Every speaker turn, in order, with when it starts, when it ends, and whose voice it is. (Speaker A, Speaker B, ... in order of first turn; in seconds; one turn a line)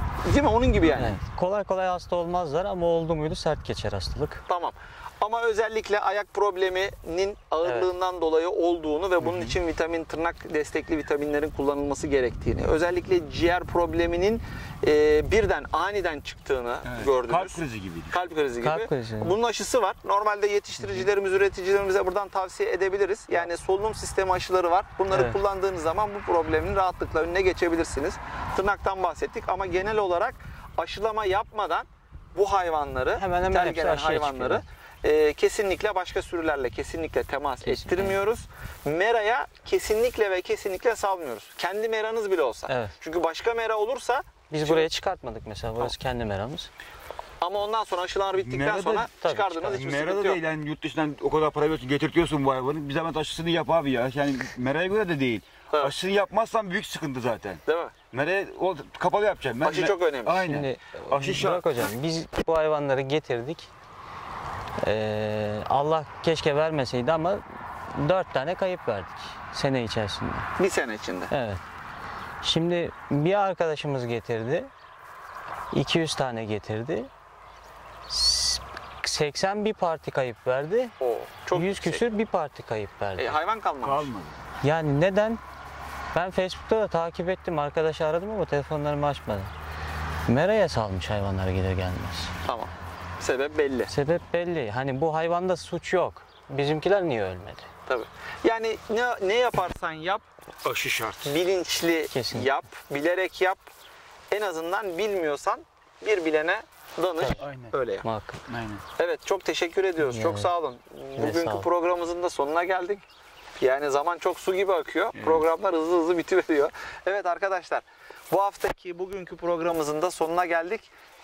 Speaker A: 0.2-1.2
Speaker B: 0.8-4.4
Speaker A: 4.5-44.9
Speaker B: 7.6-7.9
Speaker C: 9.2-9.5
Speaker C: 16.9-18.1
Speaker B: 18.6-19.3
Speaker B: 20.8-21.1
Speaker B: 33.1-34.6
Speaker B: 37.6-38.2
Speaker B: 42.7-42.9
Speaker B: 44.5-46.7
Speaker A: 47.4-50.4
Speaker C: 48.4-49.1
Speaker B: 49.2-49.9
Speaker C: 49.7-61.8
Speaker A: 55.7-55.9
Speaker A: 57.6-57.9
Speaker A: 59.6-60.4
Speaker B: 60.4-63.7
Speaker B: 64.8-67.4
Speaker B: 67.9-70.5
Speaker A: 70.6-71.3
Speaker B: 71.3-71.6
Speaker B: 72.4-74.7
Speaker B: 75.7-77.1
Speaker B: 78.1-80.9
Speaker A: 81.0-82.0
Speaker B: 81.5-83.4
Speaker A: 83.2-84.1
Speaker C: 83.8-84.4
Speaker B: 84.6-85.4
Speaker B: 86.1-89.5
Speaker B: 90.3-92.3
Speaker A: 92.4-93.9
Speaker B: 93.9-97.6
Speaker A: 97.9-100.2
Speaker C: 100.6-101.3
Speaker A: 101.2-103.6
Speaker B: 102.1-102.5
Speaker A: 104.3-108.0
Speaker B: 107.2-107.5
Speaker C: 107.4-107.7
Speaker B: 108.0-108.4
Speaker C: 108.5-108.8
Speaker A: 109.0-113.0
Speaker B: 110.0-110.5
Speaker B: 111.2-111.7
Speaker A: 113.6-120.9
Speaker C: 115.2-115.5